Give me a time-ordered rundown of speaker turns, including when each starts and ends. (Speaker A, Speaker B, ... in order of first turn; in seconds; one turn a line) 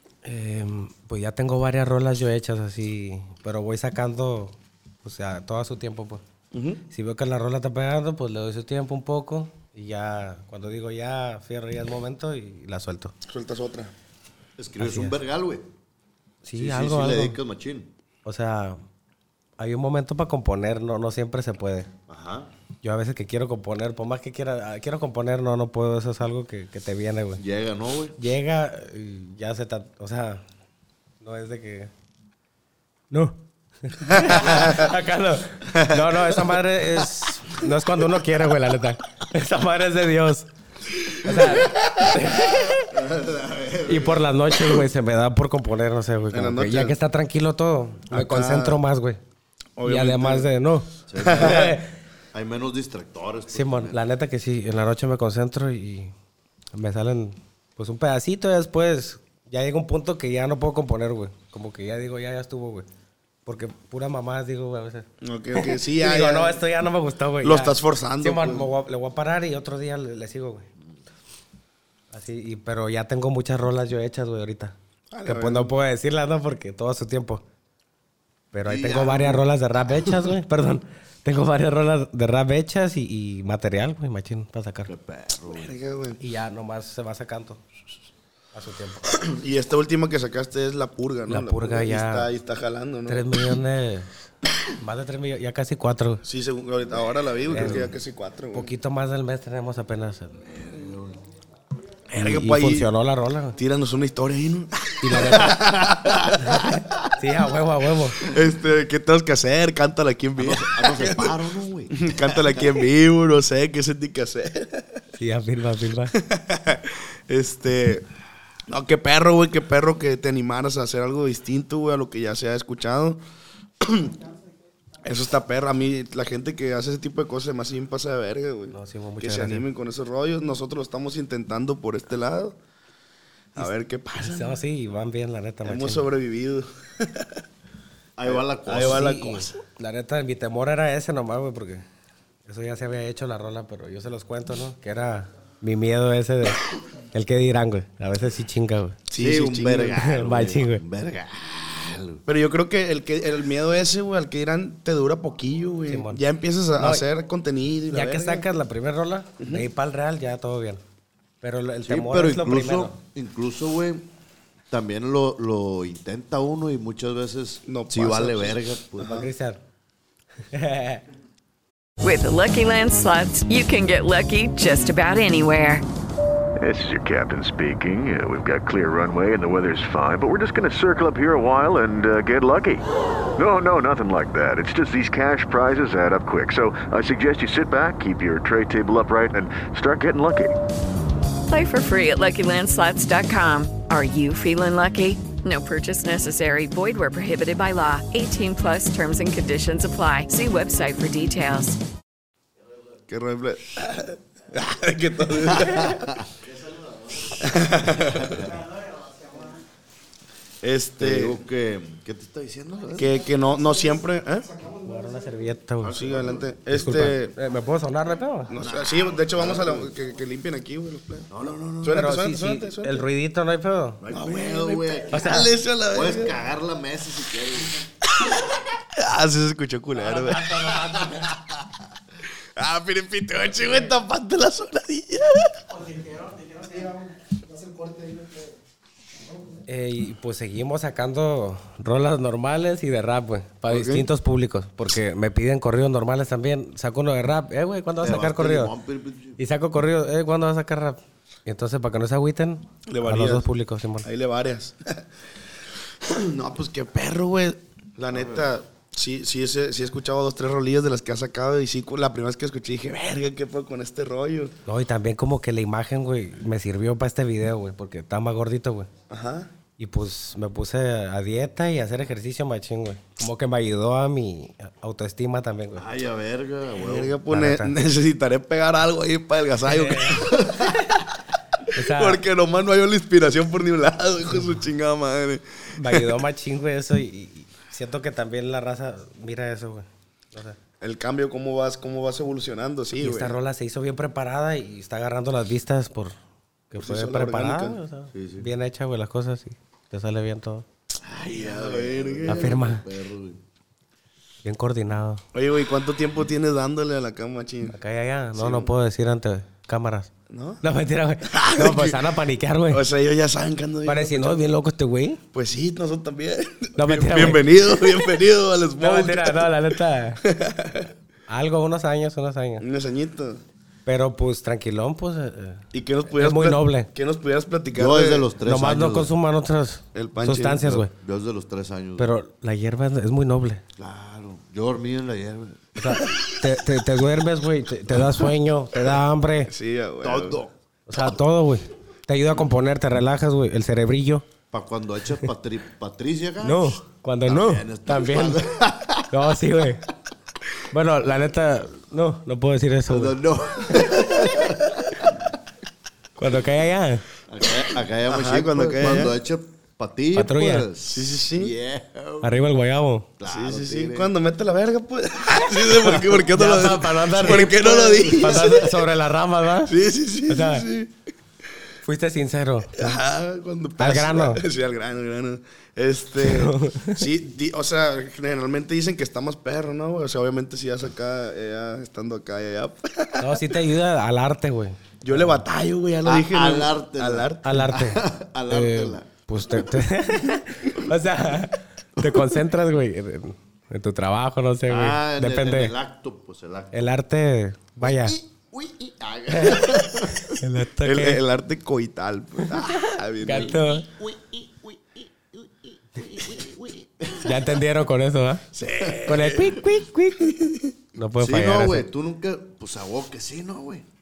Speaker A: 0.2-6.2
Speaker B: 6.5-6.8
Speaker A: 6.9-13.1
Speaker B: 13.3-13.9
Speaker C: 14.6-15.7
Speaker A: 14.8-15.2
Speaker A: 16.4-17.4
Speaker C: 16.5-17.9
Speaker A: 18.2-18.8
Speaker A: 19.6-21.9
Speaker C: 22.1-22.5
Speaker A: 22.8-27.4
Speaker C: 27.4-28.2
Speaker A: 28.2-30.4
Speaker A: 31.2-31.9
Speaker A: 33.1-40.5
Speaker B: 34.1-34.8
Speaker B: 35.7-36.4
Speaker A: 41.2-42.9
Speaker B: 41.3-42.1
Speaker C: 42.9-44.3
Speaker A: 43.9-49.2
Speaker B: 46.3-47.0
Speaker B: 48.1-48.8
Speaker B: 49.8-50.5
Speaker A: 49.9-51.9
Speaker C: 51.1-51.7
Speaker B: 51.2-51.7
Speaker C: 52.3-54.0
Speaker A: 53.5-56.1
Speaker A: 56.7-62.9
Speaker A: 63.5-70.7
Speaker B: 65.2-66.6
Speaker B: 67.4-68.7
Speaker A: 72.1-74.7
Speaker B: 75.1-75.7
Speaker A: 75.2-77.4
Speaker A: 78.5-84.9
Speaker C: 78.6-80.3
Speaker C: 84.8-85.7
Speaker B: 85.5-86.2
Speaker A: 86.2-87.6
Speaker A: 88.5-89.1
Speaker B: 89.3-93.4
Speaker A: 91.3-92.3
Speaker A: 93.1-94.1
Speaker A: 94.8-96.2
Speaker B: 96.2-98.7
Speaker A: 97.5-97.9
Speaker A: 98.5-100.4
Speaker C: 100.5-101.2
Speaker B: 102.1-102.9
Speaker A: 102.1-103.5
Speaker B: 103.5-106.6
Speaker A: 105.0-105.6
Speaker C: 105.5-106.4
Speaker A: 107.2-108.2
Speaker B: 108.2-111.4
Speaker C: 110.4-112.6
Speaker B: 112.0-114.9
Speaker A: 115.2-116.1
Speaker B: 116.2-118.0
Speaker B: 118.7-123.2
Speaker B: 123.8-124.1
Speaker B: 125.0-132.6
Speaker A: 128.7-129.7
Speaker B: 133.6-134.6
Speaker A: 133.6-136.0
Speaker B: 135.6-137.3
Speaker C: 138.2-139.1
Speaker B: 138.2-139.6
Speaker A: 138.8-141.8
Speaker A: 142.5-146.6
Speaker A: 147.1-149.0
Speaker B: 149.1-150.0
Speaker C: 149.2-152.2
Speaker A: 150.0-150.8
Speaker B: 152.2-158.4
Speaker A: 155.9-156.2
Speaker A: 156.8-157.0
Speaker A: 157.9-160.8
Speaker B: 159.4-159.7
Speaker A: 161.4-162.9
Speaker C: 161.8-164.0
Speaker C: 164.7-169.3
Speaker B: 167.7-169.2
Speaker A: 169.0-169.6
Speaker A: 170.5-171.0
Speaker D: 172.0-175.8
Speaker E: 176.6-182.8
Speaker E: 183.4-190.5
Speaker D: 191.5-201.8
Speaker B: 203.1-206.2
Speaker C: 205.6-206.2
Speaker B: 207.4-208.6
Speaker B: 210.6-211.3
Speaker C: 211.0-213.1
Speaker B: 213.0-214.6
Speaker A: 214.8-215.9
Speaker C: 215.8-216.6
Speaker B: 215.9-217.3
Speaker A: 216.7-218.5
Speaker B: 218.5-221.3
Speaker C: 218.6-219.9
Speaker C: 221.3-222.1
Speaker B: 221.8-223.0
Speaker A: 221.9-224.0
Speaker C: 224.0-227.8
Speaker B: 224.1-226.3
Speaker A: 225.1-225.5
Speaker B: 228.1-228.4
Speaker B: 229.0-230.7
Speaker A: 230.0-231.3
Speaker B: 232.6-235.6
Speaker A: 239.7-248.7
Speaker B: 243.7-244.0
Speaker C: 248.0-249.4
Speaker A: 249.4-254.1
Speaker B: 252.9-253.4
Speaker B: 254.0-255.0
Speaker B: 256.0-264.5
Speaker C: 258.1-258.5
Speaker A: 264.6-268.9
Speaker B: 269.1-269.5
Speaker A: 269.8-275.8
Speaker C: 275.7-277.1
Speaker B: 276.8-280.7
Speaker A: 277.3-277.7
Speaker A: 279.6-280.2
Speaker A: 281.7-282.2
Speaker B: 281.9-286.1
Speaker A: 285.8-290.6
Speaker B: 290.8-293.3
Speaker A: 293.0-296.1
Speaker A: 296.7-300.6
Speaker B: 296.8-297.8
Speaker C: 298.1-298.5
Speaker C: 301.0-303.4
Speaker B: 301.3-302.6
Speaker A: 302.2-302.8
Speaker A: 304.4-305.2
Speaker B: 305.3-307.8
Speaker A: 307.7-310.1
Speaker B: 308.4-308.7
Speaker B: 310.3-310.6
Speaker A: 310.6-312.8
Speaker B: 311.3-312.0
Speaker B: 312.7-314.4
Speaker A: 313.9-315.2
Speaker B: 315.3-319.5
Speaker A: 316.8-317.8
Speaker A: 318.8-320.2
Speaker B: 320.2-320.9
Speaker A: 321.3-322.6
Speaker B: 322.6-323.4
Speaker A: 323.9-326.9
Speaker B: 325.7-328.2
Speaker C: 327.7-329.1
Speaker A: 328.4-330.9
Speaker B: 329.9-330.8
Speaker C: 330.7-332.1
Speaker A: 332.0-333.6
Speaker C: 333.8-335.8
Speaker A: 335.8-339.5
Speaker B: 339.5-340.4
Speaker C: 340.0-340.5
Speaker A: 340.9-344.2
Speaker C: 344.5-349.2
Speaker A: 346.4-348.4
Speaker A: 349.1-349.8
Speaker A: 350.7-353.1
Speaker C: 352.9-354.8
Speaker A: 356.2-357.0
Speaker C: 357.3-362.3
Speaker B: 358.1-359.1
Speaker A: 360.1-360.6
Speaker B: 360.9-361.5
Speaker A: 362.2-363.1
Speaker C: 363.2-364.1
Speaker B: 363.2-368.8
Speaker A: 365.8-369.7
Speaker C: 367.4-368.5
Speaker B: 369.7-370.9
Speaker A: 370.3-370.6
Speaker A: 371.8-373.0
Speaker B: 372.8-383.3
Speaker A: 373.8-374.4
Speaker A: 376.2-377.0
Speaker A: 383.2-385.2
Speaker B: 385.0-387.7
Speaker C: 386.0-389.1
Speaker A: 387.4-395.7
Speaker C: 394.7-396.8
Speaker A: 396.7-398.1
Speaker C: 397.8-400.3
Speaker A: 399.3-399.7
Speaker A: 400.3-401.2
Speaker B: 400.8-403.6
Speaker A: 403.2-403.9
Speaker C: 403.2-407.5
Speaker A: 407.2-408.4
Speaker B: 408.5-409.6
Speaker C: 408.8-409.4
Speaker A: 409.1-410.2
Speaker B: 410.2-410.7
Speaker A: 410.9-411.9
Speaker C: 411.2-413.9